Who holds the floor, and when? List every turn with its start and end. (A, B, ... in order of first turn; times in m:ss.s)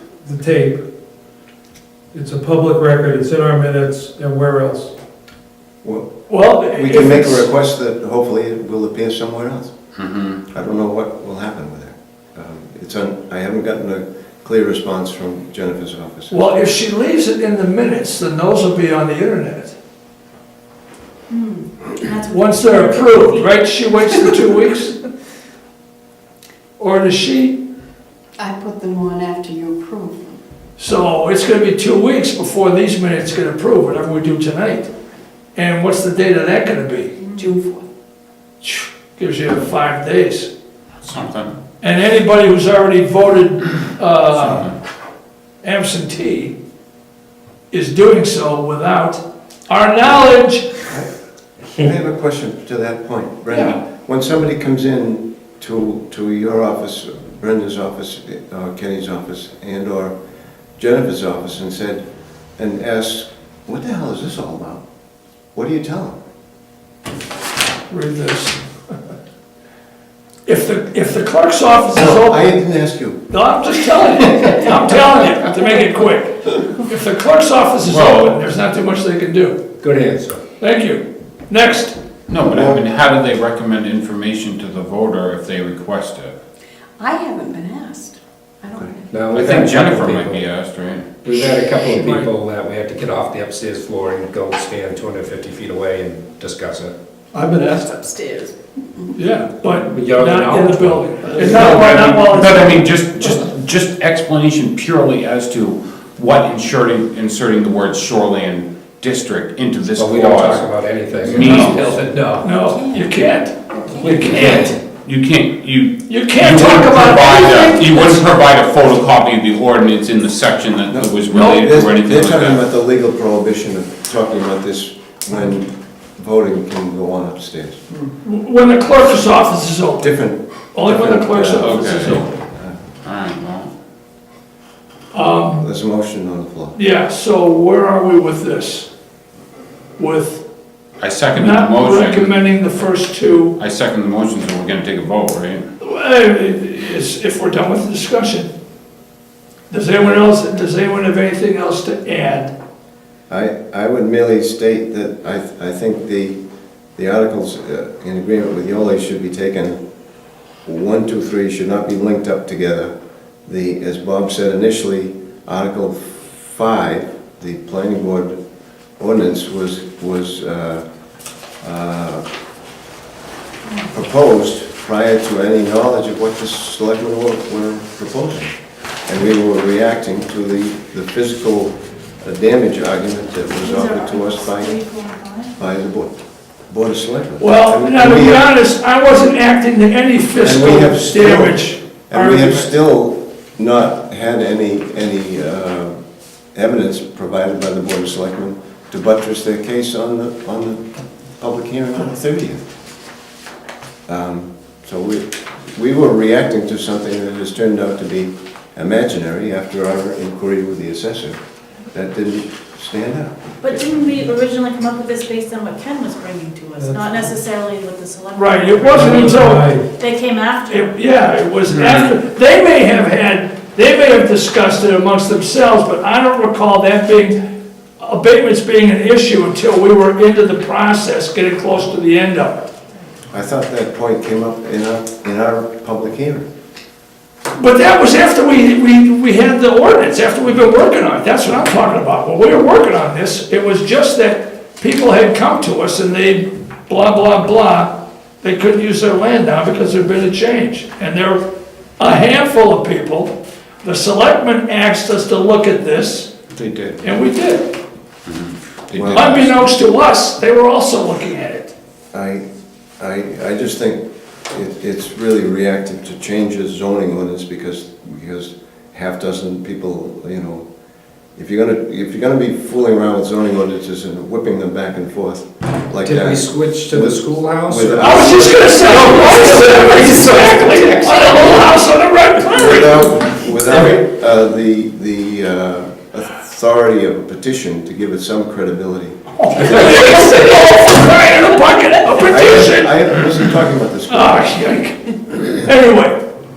0:00.2-0:00.8 A
0:02.1-0:04.9 A
0:05.8-0:06.2 B
0:06.3-0:07.5 C
0:06.7-0:09.7 B
0:10.0-0:10.4 D
0:10.5-0:16.4 B
0:16.3-0:19.8 C
0:21.3-0:23.4 E
0:22.3-0:25.0 C
0:26.8-0:27.6 C
0:28.4-0:30.4 F
0:30.8-0:34.9 C
0:35.5-0:37.2 C
0:37.2-0:37.9 F
0:38.6-0:40.5 C
0:41.0-0:41.5 D
0:41.8-0:44.7 C
0:44.3-0:44.7 D
0:45.6-0:46.6 C
0:47.7-0:50.7 C
0:51.7-1:00.1 B
0:53.5-0:53.8 C
1:00.8-1:02.0 B
1:02.6-1:04.8 B
1:05.5-1:06.2 B
1:07.9-1:08.6 C
1:10.4-1:12.5 C
1:11.9-1:13.2 B
1:13.3-1:19.6 C
1:17.8-1:18.4 D
1:19.8-1:20.4 G
1:20.6-1:22.0 C
1:22.3-1:26.3 D
1:22.4-1:22.8 B
1:27.0-1:29.2 F
1:29.1-1:30.4 G
1:29.3-1:31.1 D
1:31.2-1:36.9 G
1:31.9-1:32.3 A
1:37.3-1:37.9 A
1:37.3-1:39.1 F
1:39.1-1:42.8 C
1:39.9-1:41.2 G
1:41.4-1:52.0 D
1:49.9-1:52.3 G
1:51.3-1:51.8 C
1:52.0-1:52.4 A
1:52.4-1:54.8 C
1:52.4-1:53.1 E
1:54.1-1:54.5 G
1:54.3-2:02.6 D
1:56.1-1:58.3 C
2:00.9-2:07.8 B
2:08.2-2:10.1 C
2:10.0-2:12.8 B
2:10.7-2:12.3 C
2:11.6-2:12.3 D
2:13.0-2:13.7 D
2:15.1-2:15.6 C
2:15.6-2:16.7 B
2:16.7-2:18.9 C
2:20.0-2:20.4 C
2:21.0-2:22.4 D
2:21.3-2:23.6 C
2:23.6-2:25.6 D
2:25.8-2:28.5 C
2:29.7-2:32.5 C
2:30.0-2:30.3 B
2:33.3-2:36.4 B
2:37.0-2:39.8 B
2:40.6-2:42.9 B
2:43.4-2:48.4 B
2:49.0-2:50.8 B
2:51.6-2:52.2 B
2:53.9-2:58.5 B
2:59.0-3:04.8 B
3:03.6-3:05.5 E
3:05.6-3:06.2 B
3:06.7-3:08.5 B
3:07.4-3:12.7 C
3:10.4-3:16.0 B
3:16.5-3:20.8 B
3:21.4-3:22.6 B
3:24.1-3:31.4 B
3:31.9-3:33.8 B
3:33.6-3:41.0 E
3:36.7-3:37.0 A
3:38.3-3:39.7 C
3:38.8-3:39.9 A
3:40.7-3:47.5 C
3:41.7-3:42.1 D
3:48.0-3:52.7 C
3:53.3-3:56.4 B
3:57.5-4:11.4 C
4:12.0-4:16.3 C
4:16.5-4:17.0 D
4:17.0-4:17.7 C
4:18.2-4:19.6 D
4:18.9-4:19.4 B
4:19.1-4:21.7 C
4:22.1-4:22.4 B
4:23.0-4:30.6 B
4:31.4-4:38.8 B
4:36.0-4:41.6 G
4:38.0-4:43.4 C
4:42.5-4:49.2 B
4:49.5-4:53.2 C
4:52.2-4:54.5 B
4:54.1-4:56.2 C